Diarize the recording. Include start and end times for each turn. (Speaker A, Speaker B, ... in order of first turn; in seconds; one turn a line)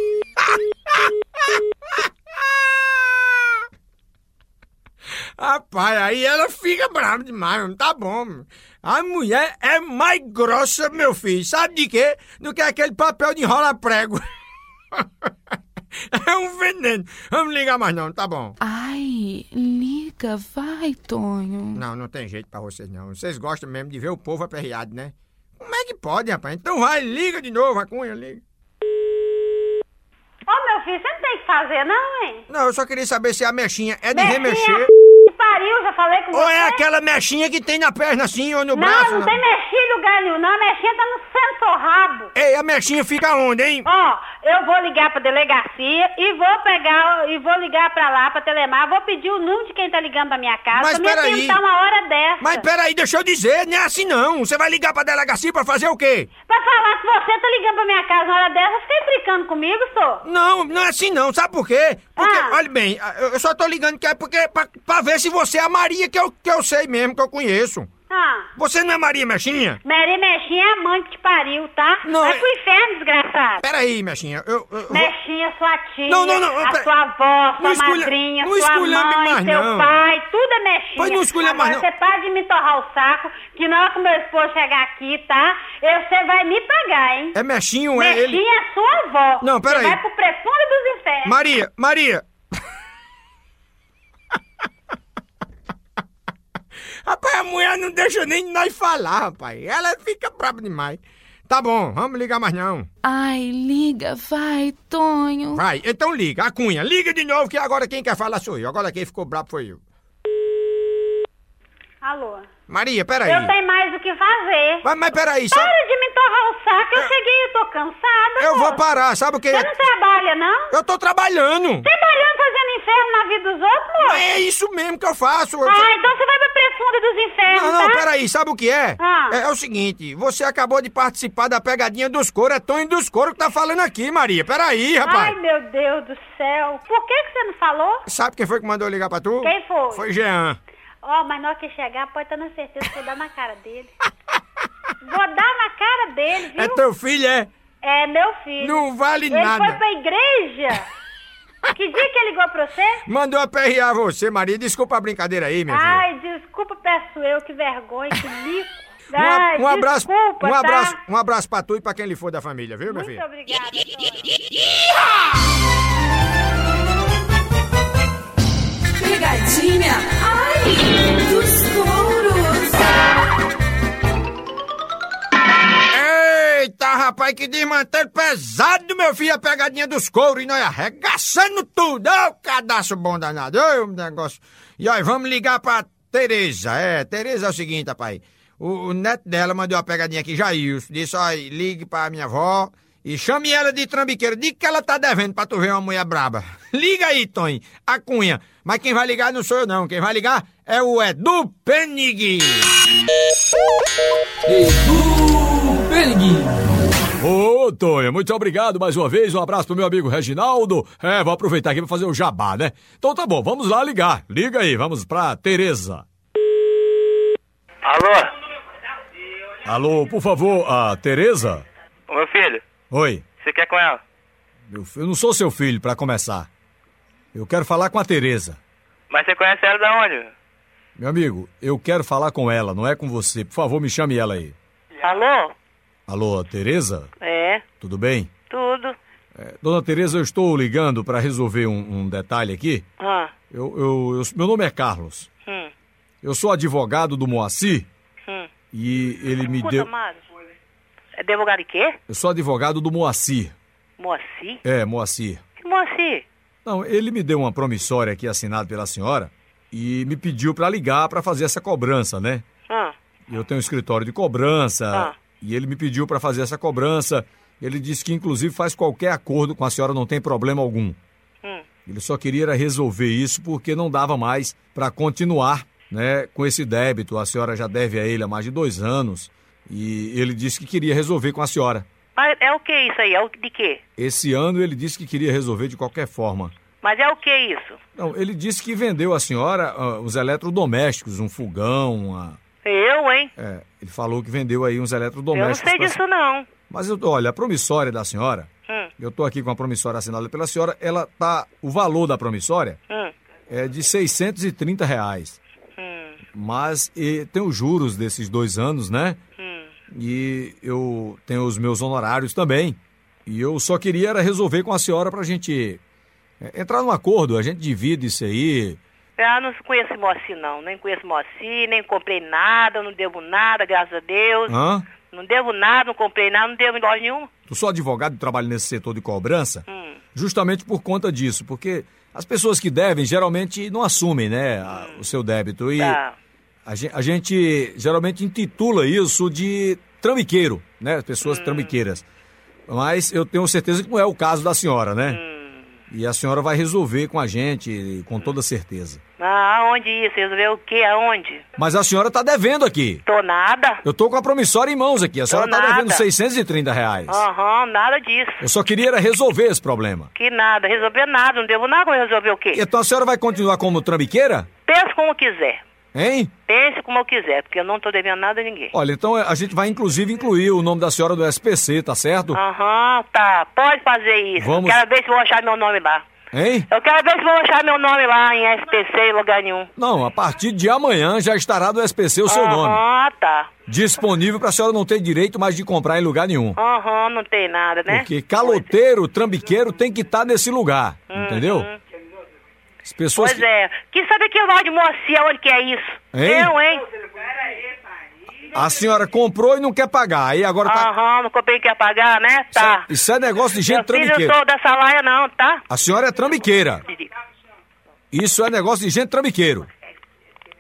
Speaker A: 0.4-3.6
Speaker A: 5.4-14.2
Speaker A: 14.9-15.3
Speaker A: 16.0-18.6
Speaker B: 18.6-21.8
Speaker A: 21.8-28.4
Speaker C: 30.5-32.5
Speaker A: 32.5-34.9
Speaker C: 34.1-36.8
Speaker A: 36.3-39.4
Speaker C: 38.7-42.3
Speaker A: 42.4-43.9
Speaker C: 43.9-52.6
Speaker A: 50.7-51.6
Speaker A: 52.4-56.3
Speaker C: 56.5-60.2
Speaker A: 60.2-67.9
Speaker C: 62.2-62.6
Speaker C: 68.1-68.5
Speaker A: 68.6-69.8
Speaker C: 69.8-73.6
Speaker A: 72.0-72.5
Speaker A: 73.6-75.1
Speaker C: 74.9-87.3
Speaker A: 76.1-76.9
Speaker A: 77.6-80.0
Speaker A: 81.0-81.8
Speaker A: 87.3-88.4
Speaker C: 88.0-91.3
Speaker A: 89.4-90.0
Speaker A: 91.2-92.2
Speaker A: 97.0-102.9
Speaker B: 103.0-105.6
Speaker A: 105.5-109.8
Speaker C: 112.0-112.5
Speaker A: 112.7-113.5
Speaker C: 113.2-114.8
Speaker A: 114.8-115.7
Speaker C: 115.5-119.0
Speaker A: 118.4-119.7
Speaker C: 119.5-120.7
Speaker A: 120.7-121.9
Speaker C: 121.8-124.2
Speaker A: 124.0-125.9
Speaker C: 125.7-128.0
Speaker A: 127.5-135.3
Speaker C: 129.0-129.4
Speaker C: 135.0-138.1
Speaker A: 138.1-140.6
Speaker C: 139.4-140.1
Speaker C: 141.0-143.9
Speaker C: 145.0-146.8
Speaker A: 146.6-147.5
Speaker C: 147.8-150.9
Speaker A: 148.6-149.8
Speaker C: 151.7-153.0
Speaker A: 153.1-156.0
Speaker C: 155.7-161.0
Speaker A: 159.1-163.2
Speaker C: 162.9-164.3
Speaker D: 168.9-173.2
Speaker A: 175.9-202.7
Speaker E: 204.5-206.5
Speaker E: 207.2-216.1
Speaker F: 217.8-218.3
Speaker E: 219.7-221.6
Speaker F: 222.1-222.6
Speaker E: 222.9-223.2
Speaker F: 223.3-224.0
Speaker E: 224.7-226.5
Speaker E: 227.3-228.6
Speaker F: 229.1-230.3
Speaker E: 231.0-234.6
Speaker G: 235.0-235.5
Speaker E: 236.1-237.1
Speaker G: 237.2-237.7
Speaker E: 237.8-238.3
Speaker G: 238.5-239.0
Speaker E: 239.4-242.8
Speaker G: 243.0-243.3
Speaker E: 243.5-245.3
Speaker G: 245.5-245.7
Speaker E: 246.2-247.9
Speaker G: 248.3-248.5
Speaker E: 248.7-249.9
Speaker G: 249.5-250.2
Speaker G: 251.2-252.0
Speaker E: 252.1-253.6
Speaker G: 254.0-254.6
Speaker E: 254.6-255.4
Speaker G: 255.6-256.2
Speaker E: 256.6-262.4
Speaker G: 262.7-262.9
Speaker E: 263.3-271.0
Speaker E: 271.9-281.9
Speaker G: 282.2-283.8
Speaker E: 284.0-286.5
Speaker G: 286.8-287.8
Speaker E: 288.0-292.4
Speaker G: 292.6-293.3
Speaker E: 293.4-296.0
Speaker G: 295.3-296.5
Speaker E: 296.7-302.8
Speaker E: 303.5-305.4
Speaker G: 305.8-306.2
Speaker E: 306.3-309.2
Speaker G: 309.4-309.7
Speaker E: 309.9-315.8
Speaker E: 316.4-318.8
Speaker G: 319.2-327.3
Speaker E: 324.5-324.9
Speaker E: 327.5-336.0
Speaker G: 329.7-330.0
Speaker G: 334.7-335.1
Speaker G: 335.8-336.1
Speaker E: 336.7-342.0
Speaker G: 341.2-341.7
Speaker E: 342.7-345.2
Speaker G: 345.1-345.8
Speaker E: 345.9-349.0
Speaker G: 349.2-351.4
Speaker E: 351.6-353.0
Speaker G: 353.1-353.8
Speaker E: 353.8-357.2
Speaker G: 355.3-356.1
Speaker G: 357.1-358.4
Speaker E: 358.4-360.1
Speaker G: 360.1-362.6
Speaker E: 362.5-364.5
Speaker G: 364.6-365.6
Speaker E: 365.9-366.3
Speaker G: 366.5-368.7
Speaker E: 368.7-372.4
Speaker G: 372.3-376.1
Speaker E: 374.4-374.8
Speaker E: 376.3-376.7
Speaker G: 376.7-379.7
Speaker E: 379.8-382.8
Speaker G: 382.3-383.5
Speaker E: 383.7-386.6
Speaker G: 386.6-388.7
Speaker E: 387.9-391.7
Speaker G: 391.1-391.8
Speaker E: 392.9-393.4
Speaker G: 393.1-396.9
Speaker E: 396.1-396.6
Speaker E: 398.5-400.9
Speaker G: 400.6-402.9
Speaker E: 402.5-404.4
Speaker G: 403.6-405.6
Speaker E: 405.7-406.8
Speaker E: 408.1-409.7